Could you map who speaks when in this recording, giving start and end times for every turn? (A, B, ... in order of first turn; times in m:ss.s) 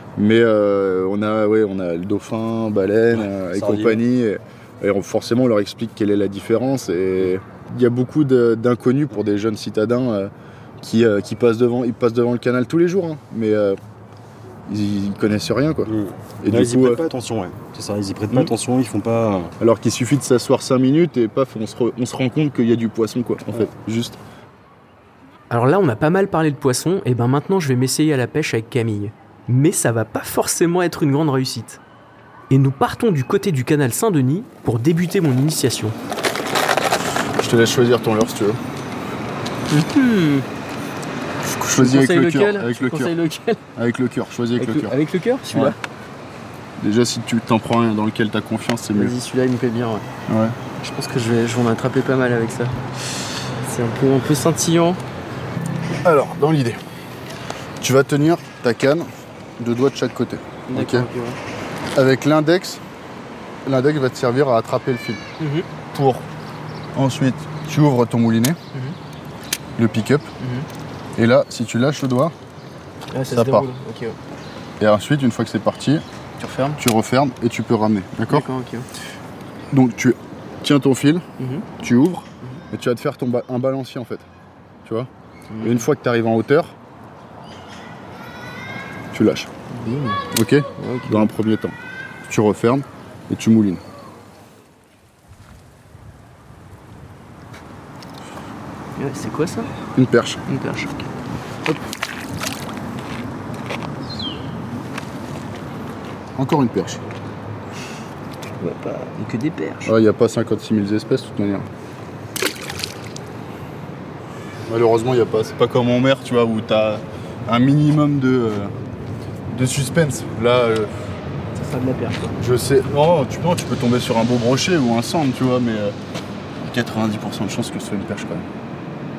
0:00.2-0:13.8 A
0:03.1-0:04.0 B
0:14.7-0:17.0 A
0:15.8-0:19.5 B
0:19.6-0:24.2 A
0:25.5-0:31.8 C
0:32.5-0:36.0 C
0:37.4-0:38.6 A
0:39.7-0:40.4 C
0:41.4-0:43.1 A
0:41.8-0:43.6 C
0:43.8-0:45.0 A
0:44.6-0:45.8 C
0:45.5-0:45.8 A
0:46.8-0:49.2 A
0:48.9-0:50.0 C
0:50.3-0:50.6 A
0:50.8-0:52.8 C
0:53.6-0:55.0 C
0:56.0-0:56.8 A
0:57.8-1:01.1 A
1:00.7-1:01.4 C
1:01.9-1:02.8 A
1:03.6-1:05.2 A
1:05.4-1:05.6 C
1:05.9-1:06.2 A
1:06.9-1:08.6 A
1:09.8-1:10.3 A
1:10.4-1:10.6 C
1:11.2-1:12.3 A
1:13.1-1:14.2 C
1:13.3-1:13.7 A
1:14.8-1:16.0 A
1:16.4-1:16.8 C
1:16.7-1:18.5 A
1:18.3-1:18.8 C
1:19.7-1:21.2 A
1:21.4-1:21.6 C
1:21.8-1:24.2 A
1:25.5-1:25.8 C
1:25.6-1:26.7 A
1:29.1-1:29.5 A
1:29.7-1:30.2 C
1:30.3-1:31.7 A
1:30.8-1:31.3 C
1:32.3-1:33.8 A
1:39.0-1:39.7 C
1:39.9-1:40.4 A
1:40.5-1:41.1 C
1:46.4-1:47.0 A
1:48.6-1:49.9 C
1:49.8-1:51.7 A
1:54.7-1:58.7 A
1:59.5-2:00.9 A
2:01.6-2:02.4 C
2:02.4-2:06.0 A
2:06.6-2:08.4 A